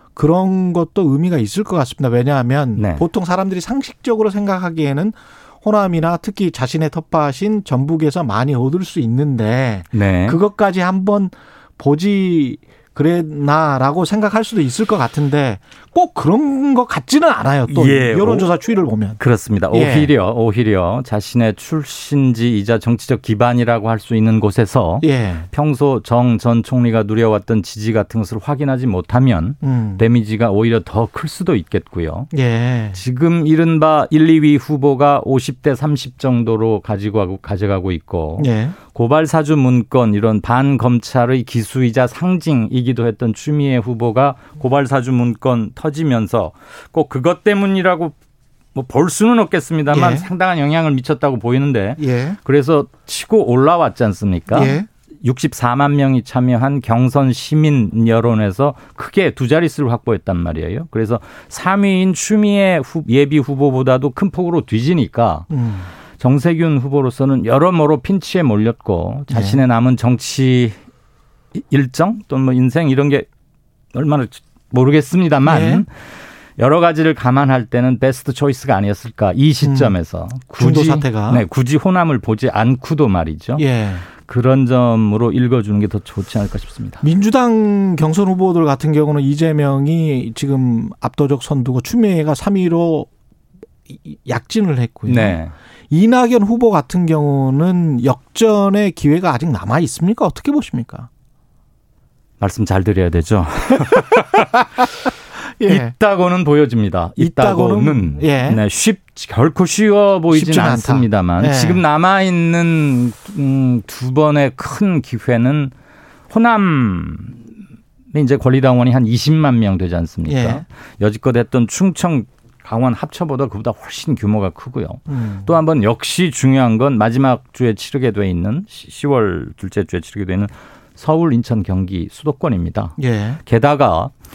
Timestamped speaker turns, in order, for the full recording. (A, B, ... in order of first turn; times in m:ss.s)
0:00.2-0:19.2 A
0:02.8-0:03.0 B
0:09.9-0:10.4 B
0:17.7-0:18.5 B
0:19.2-0:32.3 B
0:19.7-0:20.1 A
0:25.0-0:25.5 A
0:29.6-0:30.0 A
0:32.3-0:33.0 A
0:32.9-0:48.2 B
0:38.4-0:38.8 A
0:48.7-1:05.5 B
0:49.9-0:50.3 A
0:52.0-0:52.4 A
0:54.5-0:54.9 A
1:05.5-1:05.9 A
1:06.2-1:10.8 B
1:09.3-1:09.6 A
1:11.5-1:13.3 B
1:13.9-1:15.9 B
1:15.4-1:15.8 A
1:16.6-1:23.6 B
1:19.6-1:19.9 A
1:20.6-1:21.4 A
1:23.6-1:24.0 A
1:24.2-1:27.0 B
1:27.0-1:33.1 A
1:33.9-1:41.1 A
1:35.1-1:35.5 B
1:42.4-1:44.6 B
1:45.6-1:45.9 A
1:45.6-1:55.7 B
1:47.2-1:48.6 A
1:50.3-1:51.8 A
1:56.3-1:57.4 B
1:58.1-2:14.1 B
2:00.2-2:00.6 A
2:05.1-2:05.6 A
2:13.0-2:13.4 A